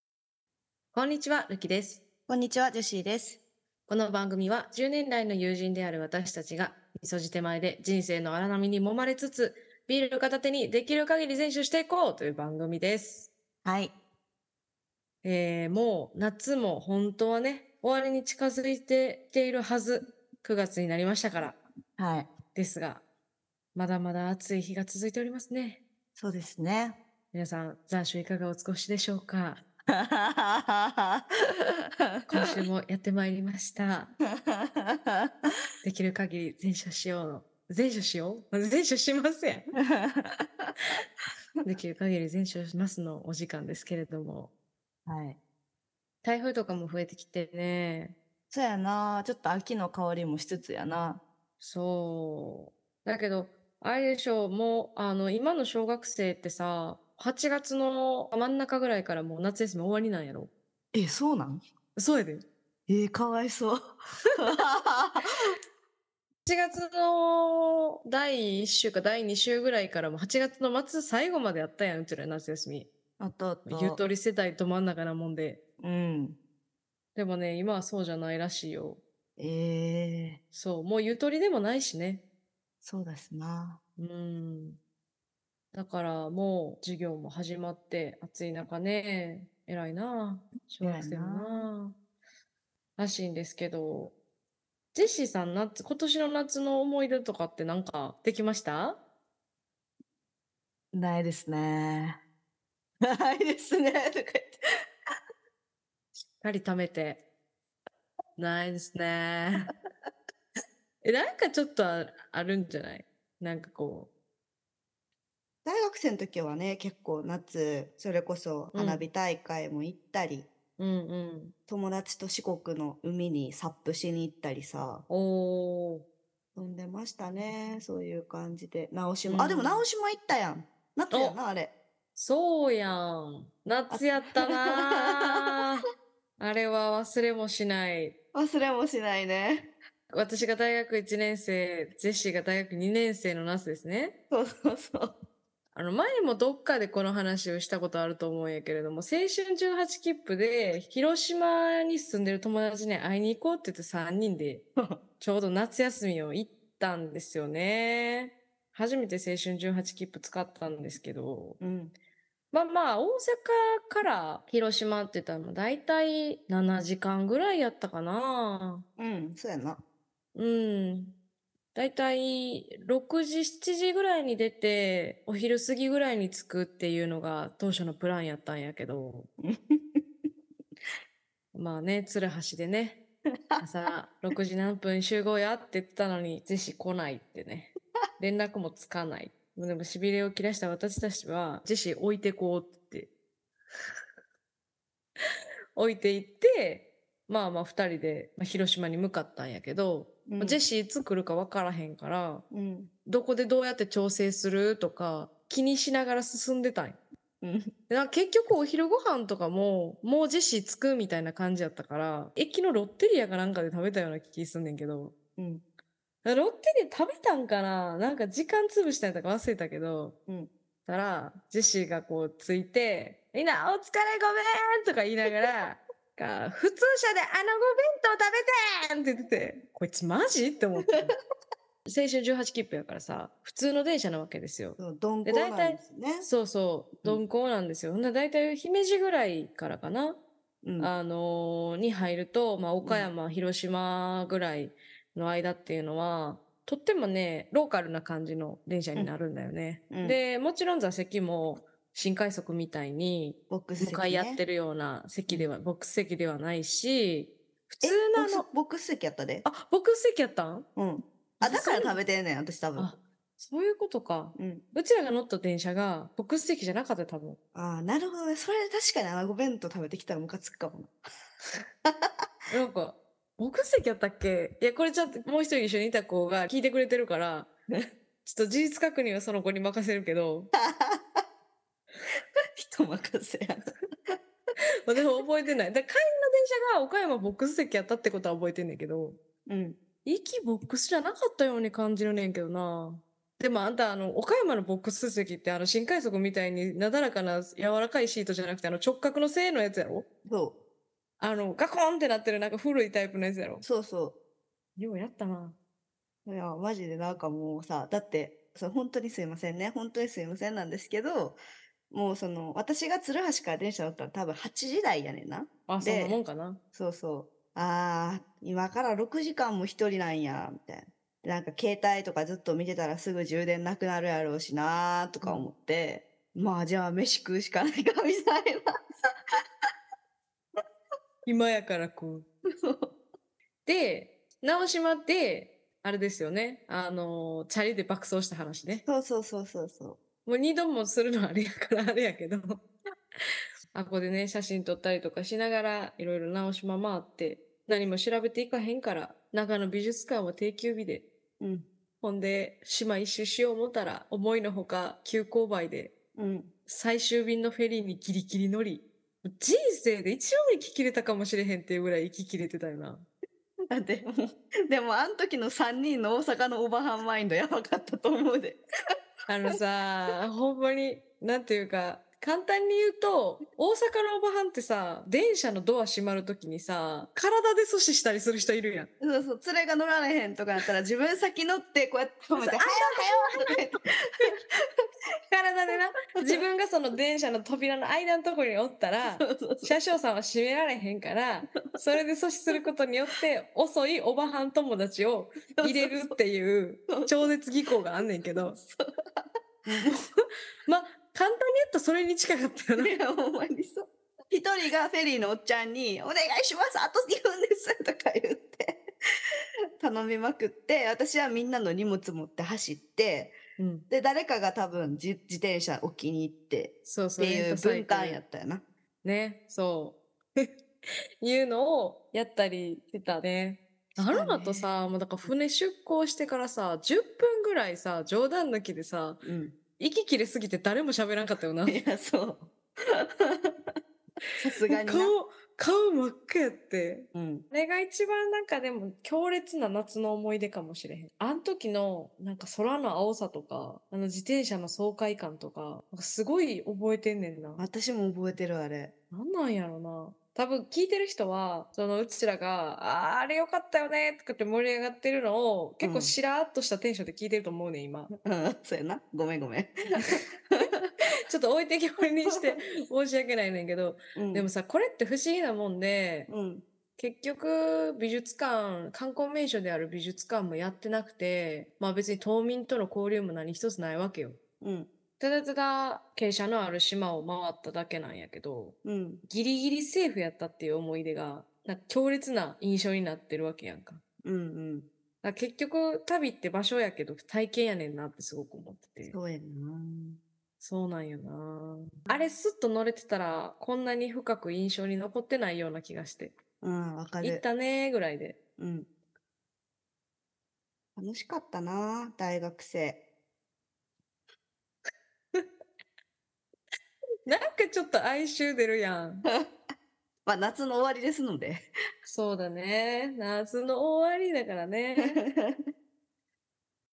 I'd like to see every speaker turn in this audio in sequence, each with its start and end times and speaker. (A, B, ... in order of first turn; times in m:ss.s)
0:00.9-0:02.0 A
0:02.3-0:03.4 B
0:03.9-0:13.3 A
0:13.6-0:13.9 B
0:15.2-0:21.6 A
0:22.0-0:22.3 B
0:22.5-0:23.0 A
0:23.7-0:25.8 A
0:26.2-0:27.0 B
0:27.3-0:29.6 A
0:29.9-0:32.3 B
0:32.3-0:34.1 A
0:34.3-0:35.3 B
0:35.8-0:39.7 A
0:39.8-0:40.7 B
0:41.6-0:44.5 A
0:45.0-0:45.4 B
0:46.2-0:48.1 A
0:48.5-0:51.2 B
0:51.6-1:00.5 A
1:00.9-1:01.6 B
1:02.0-1:02.4 A
1:02.9-1:03.8 B
1:04.3-1:05.2 B
1:06.4-1:12.9 A
1:13.2-1:14.0 B
1:13.7-1:15.6 A
1:15.8-1:16.4 B
1:17.2-1:19.0 A
1:19.4-1:20.4 B
1:20.5-1:22.2 A
1:22.8-1:23.8 B
1:24.0-1:24.8 A
1:25.7-1:31.9 A
1:30.8-1:31.7 B
1:33.0-1:34.1 A
1:34.9-1:39.0 A
1:40.9-1:42.2 B
1:43.0-1:44.6 B
1:46.4-1:47.2 A
1:48.4-1:49.7 A
1:51.0-1:54.1 A
1:55.6-2:00.5 B
1:58.7-1:59.0 A
2:00.8-2:01.5 A
2:01.7-2:05.0 B
2:05.1-2:06.0 A
2:06.6-2:11.7 B
2:09.2-2:09.8 A
2:11.1-2:11.4 A
2:12.1-2:15.8 A
2:13.9-2:15.6 B
2:16.4-2:18.1 A
2:18.3-2:19.7 B
2:20.1-2:24.1 A
2:24.3-2:25.1 B
2:25.7-2:34.6 A
2:35.2-2:41.6 A
2:41.6-2:41.9 B
2:42.5-2:48.8 A
2:49.0-2:49.8 B
2:50.3-2:51.1 A
2:51.7-2:59.3 A
2:59.4-3:00.0 B
3:01.5-3:03.0 A
3:03.6-3:13.1 A
3:15.8-3:22.4 A
3:20.2-3:20.6 B
3:22.5-3:22.9 B
3:23.0-3:27.0 A
3:27.4-3:27.7 B
3:27.9-3:35.1 A
3:35.4-3:35.6 B
3:36.2-3:40.2 A
3:40.8-3:51.1 A
3:51.8-4:00.2 A
3:54.8-3:56.3 B
4:00.6-4:00.9 B
4:00.8-4:18.5 A
4:02.8-4:03.1 B
4:09.9-4:10.2 B
4:13.5-4:14.4 B
4:17.8-4:19.4 B
4:19.4-4:20.6 A
4:20.8-4:22.9 B
4:21.4-4:22.0 A
4:22.8-4:27.4 A
4:24.4-4:24.6 B
4:27.5-4:31.0 B
4:31.8-4:32.1 B
4:32.5-4:37.5 A
4:38.2-4:40.5 A
4:40.5-4:41.2 B
4:42.6-4:44.2 B
4:44.8-4:49.2 A
4:49.5-4:49.8 B
4:50.0-5:00.0 A
5:00.2-5:00.6 B
5:01.2-5:03.6 A
5:03.6-5:04.2 B
5:04.8-5:05.6 A
5:06.2-5:11.4 B
5:11.9-5:16.2 B
5:15.7-5:16.6 A
5:16.7-5:28.7 B
5:25.2-5:25.5 A
5:31.2-5:32.2 A
5:32.6-5:32.9 B
5:33.6-5:38.8 A
5:38.8-5:40.0 B
5:40.2-5:42.6 A
5:43.7-5:51.0 A
5:51.4-5:51.6 B
5:52.0-5:55.9 A
5:56.2-5:56.5 B
5:56.7-6:03.0 A
6:03.7-6:08.6 B
6:09.3-6:18.9 A
6:19.0-6:24.3 B
6:22.4-6:23.5 A
6:25.3-6:38.6 A
6:29.0-6:29.8 B
6:35.6-6:36.2 B
6:36.9-6:37.3 B
6:38.6-6:39.9 B
6:40.7-6:42.9 A
6:42.8-6:48.8 B
6:49.8-6:53.4 B
6:53.6-6:53.8 A
6:53.9-6:58.6 B
6:56.8-6:58.2 A
6:59.0-7:00.5 A
7:01.2-7:09.2 A
7:04.0-7:04.7 B
7:09.2-7:09.5 B
7:09.8-7:11.8 A
7:11.6-7:13.7 B
7:14.4-7:15.1 B
7:14.7-7:27.6 A
7:17.1-7:17.4 B
7:27.6-7:28.9 B
7:29.1-7:38.1 A
7:35.8-7:36.1 B
7:38.1-7:40.6 B
7:41.3-7:46.3 A
7:44.1-7:44.5 B
7:46.3-7:46.6 B
7:47.0-7:54.4 A
7:54.6-7:54.9 B
7:55.2-7:58.8 A
7:58.8-7:59.2 B
7:59.3-8:04.0 A
8:04.2-8:04.9 B
8:05.2-8:09.2 A
8:09.1-8:10.2 B
8:10.6-8:16.3 A
8:16.6-8:17.4 B
8:17.2-8:18.4 A
8:18.6-8:18.9 B
8:21.0-8:23.0 B
8:27.2-8:29.2 A
8:30.2-8:31.6 B
8:32.0-8:35.2 A
8:35.0-8:35.6 B